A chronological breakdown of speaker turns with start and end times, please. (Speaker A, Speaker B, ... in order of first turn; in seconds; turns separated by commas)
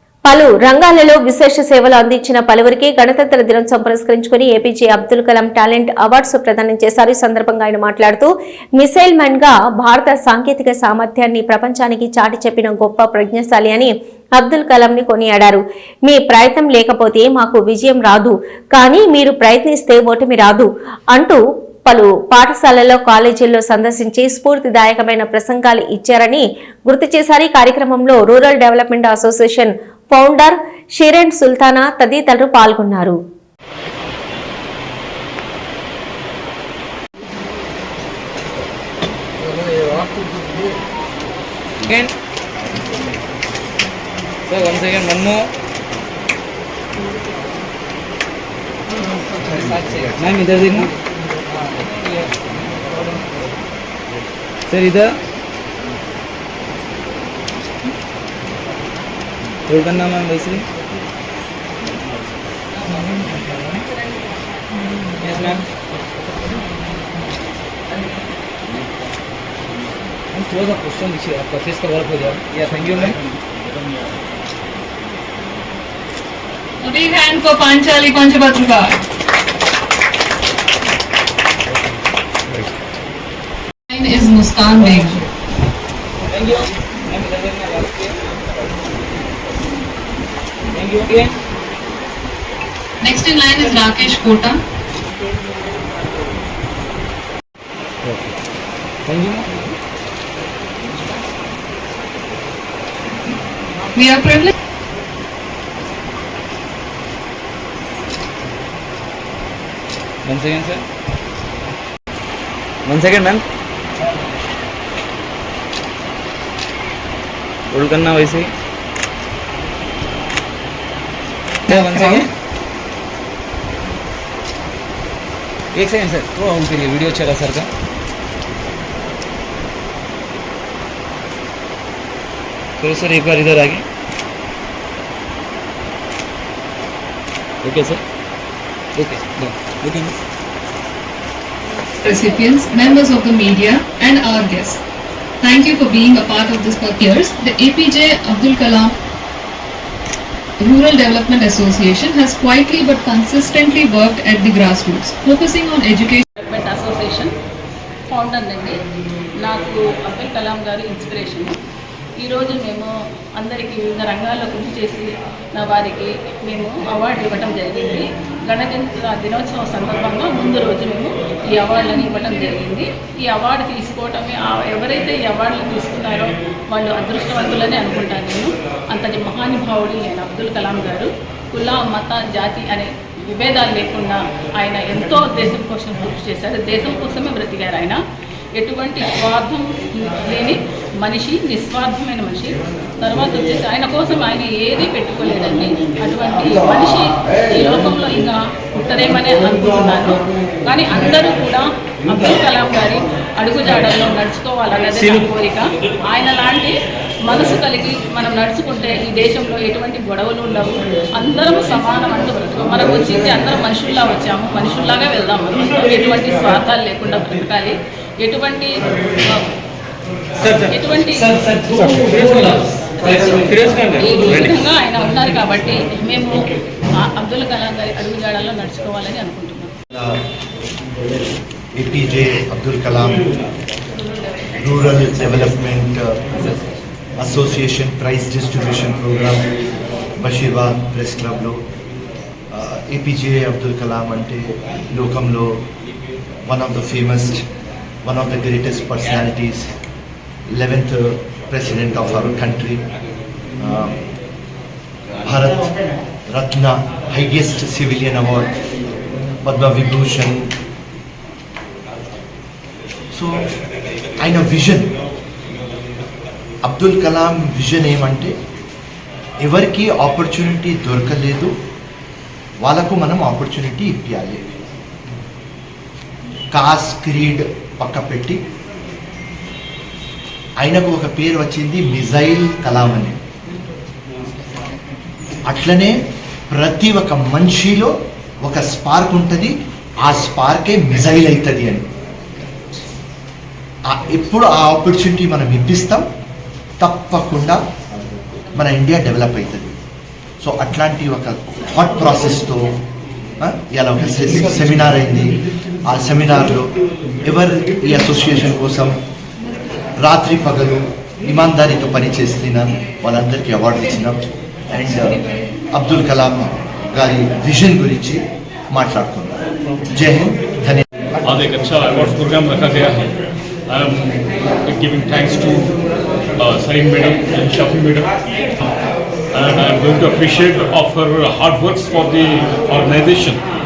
Speaker A: 0.3-33.2, Speaker B: 41.9-42.1, Speaker B: 44.5-45.5, Speaker B: 49.4-50.9, Speaker B: 51.6-52.4, Speaker B: 54.7-55.2, Speaker B: 59.7-60.7, Speaker B: 65.2-65.7, Speaker B: 70.3-73.2, Speaker C: 76.8-79.0, Speaker C: 83.9-85.2, Speaker B: 86.3-88.2, Speaker B: 90.7-91.4, Speaker C: 93.0-94.6, Speaker B: 99.1-99.6, Speaker C: 104.0-104.5, Speaker B: 110.2-110.8, Speaker B: 112.9-113.5, Speaker B: 117.7-118.5, Speaker B: 121.7-122.3, Speaker C: 121.7-122.2, Speaker B: 125.7-127.7, Speaker B: 132.8-133.8, Speaker B: 137.6-138.0, Speaker B: 139.0-140.1, Speaker C: 142.0-144.8, Speaker C: 145.4-149.0, Speaker C: 150.6-156.2, Speaker D: 156.4-157.3, Speaker D: 158.1-158.8, Speaker D: 159.4-161.6, Speaker D: 162.2-188.0, Speaker D: 188.6-206.8, Speaker B: 204.9-205.3, Speaker D: 207.3-219.5, Speaker B: 220.4-220.7, Speaker D: 220.6-221.3, Speaker B: 221.3-224.6, Speaker D: 223.9-229.7, Speaker E: 229.9-230.2, Speaker E: 231.8-233.4, Speaker E: 234.6-236.5, Speaker E: 237.2-239.5, Speaker E: 240.2-241.6, Speaker E: 242.5-245.6, Speaker E: 246.5-247.4, Speaker E: 248.0-249.7, Speaker E: 250.5-252.9, Speaker E: 253.6-254.0, Speaker E: 255.2-255.7, Speaker E: 256.3-258.5, Speaker E: 259.4-260.5, Speaker E: 263.1-263.4, Speaker E: 264.2-265.0, Speaker E: 266.6-268.4, Speaker E: 269.4-271.6, Speaker E: 272.6-274.4, Speaker E: 276.5-278.4, Speaker E: 280.6-283.2, Speaker E: 285.4-291.9, Speaker E: 293.9-296.1, Speaker E: 296.8-297.6, Speaker E: 298.5-299.8, Speaker E: 300.4-302.8, Speaker E: 303.4-309.0, Speaker E: 310.0-314.2, Speaker E: 314.7-320.9, Speaker F: 321.2-323.1, Speaker F: 323.7-325.7, Speaker F: 326.4-328.6, Speaker F: 329.3-333.4